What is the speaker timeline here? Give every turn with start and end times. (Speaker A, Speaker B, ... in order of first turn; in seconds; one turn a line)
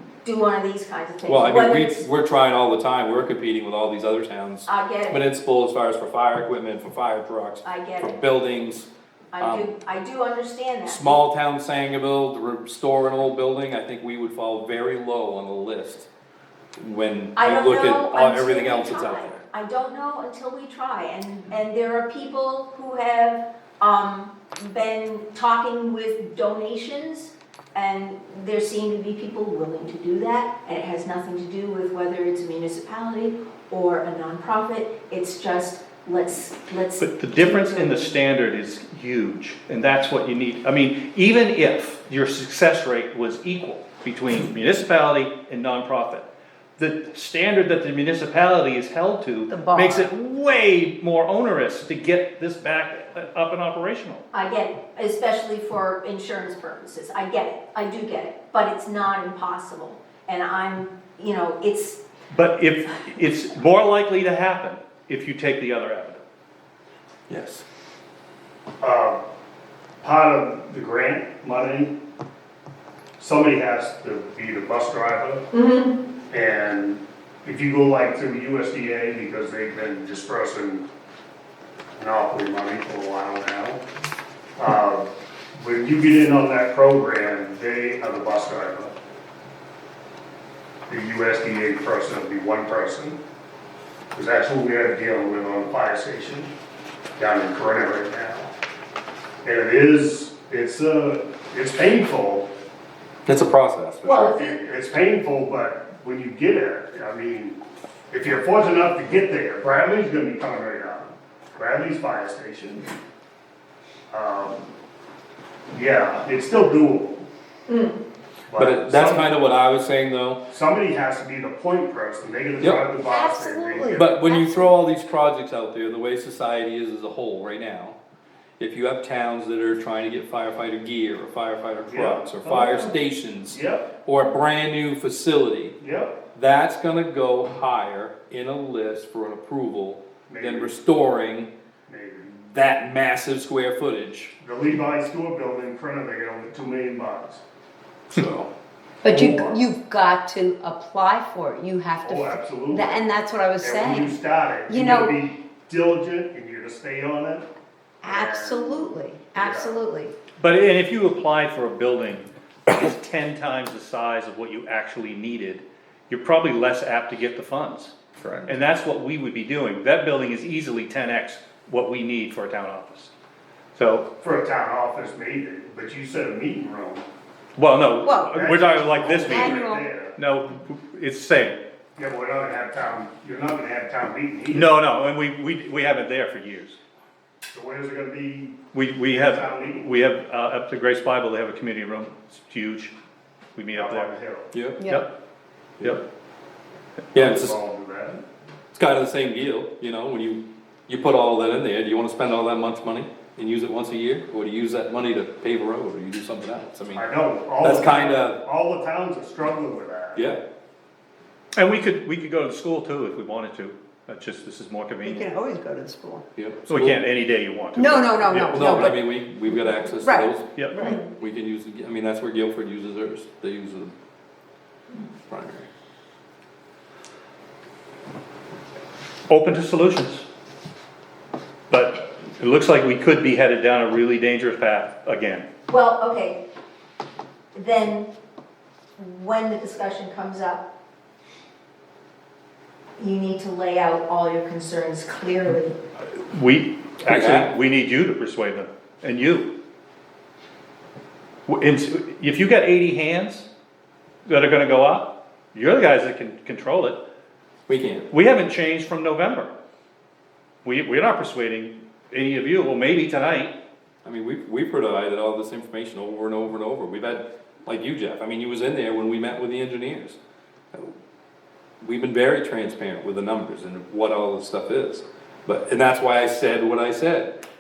Speaker A: 0.2-2.1
Speaker B: 1.3-9.7
Speaker A: 4.7-5.2
Speaker A: 7.6-8.2
Speaker A: 9.3-11.2
Speaker B: 10.9-16.1
Speaker B: 16.8-19.4
Speaker A: 17.4-38.1
Speaker C: 37.0-54.2
Speaker D: 49.5-50.1
Speaker A: 54.3-62.0
Speaker C: 62.3-66.2
Speaker B: 67.3-67.7
Speaker E: 68.8-69.2
Speaker E: 70.0-72.0
Speaker E: 73.2-75.5
Speaker A: 75.5-76.0
Speaker E: 76.3-80.9
Speaker E: 82.0-83.8
Speaker E: 84.6-89.0
Speaker E: 90.9-93.2
Speaker E: 94.1-96.5
Speaker E: 97.2-98.5
Speaker E: 99.4-102.5
Speaker B: 103.3-104.3
Speaker A: 104.0-104.6
Speaker E: 104.1-107.6
Speaker E: 108.1-112.9
Speaker E: 114.1-114.7
Speaker E: 115.7-117.3
Speaker A: 117.7-118.0
Speaker E: 118.5-119.3
Speaker B: 118.6-120.4
Speaker E: 120.5-124.1
Speaker B: 122.6-122.9
Speaker D: 123.0-124.7
Speaker B: 123.9-128.0
Speaker B: 128.6-135.8
Speaker E: 131.9-133.0
Speaker E: 133.5-133.9
Speaker E: 135.8-136.2
Speaker B: 136.3-141.5
Speaker E: 140.3-140.8
Speaker E: 141.9-142.3
Speaker B: 142.3-144.3
Speaker E: 144.4-147.4
Speaker B: 148.1-148.5
Speaker D: 149.0-154.2
Speaker E: 149.1-149.6
Speaker E: 152.0-153.0
Speaker E: 153.6-157.5
Speaker D: 154.7-155.1
Speaker D: 158.0-160.1
Speaker E: 158.0-159.8
Speaker C: 160.4-173.1
Speaker C: 173.8-174.1
Speaker E: 174.2-177.1
Speaker C: 177.6-179.5
Speaker D: 178.0-179.9
Speaker E: 178.3-180.2
Speaker C: 180.1-181.6
Speaker E: 182.0-184.8
Speaker C: 184.5-186.8
Speaker E: 187.5-188.6
Speaker C: 188.7-192.9
Speaker E: 189.1-190.0
Speaker C: 193.6-194.1
Speaker E: 193.8-194.5
Speaker B: 194.5-194.8
Speaker D: 194.8-195.1
Speaker C: 194.8-195.1
Speaker B: 197.1-197.6
Speaker E: 197.2-198.2
Speaker B: 198.7-207.1
Speaker E: 206.9-210.3
Speaker B: 207.6-208.4
Speaker C: 211.6-215.3
Speaker D: 215.0-216.2
Speaker B: 216.4-217.1
Speaker C: 216.7-219.0
Speaker D: 217.8-221.0
Speaker B: 218.5-220.5
Speaker B: 221.0-223.9
Speaker B: 225.3-225.7
Speaker C: 229.3-230.2
Speaker C: 231.7-235.5
Speaker A: 235.7-236.4
Speaker A: 237.6-238.1
Speaker A: 239.0-240.7
Speaker A: 243.0-245.8
Speaker C: 246.1-249.5
Speaker B: 247.1-247.6
Speaker C: 251.5-253.5
Speaker C: 254.3-257.0
Speaker B: 257.7-258.1
Speaker C: 258.1-259.5
Speaker C: 260.6-263.6
Speaker B: 264.0-270.2
Speaker B: 271.8-277.3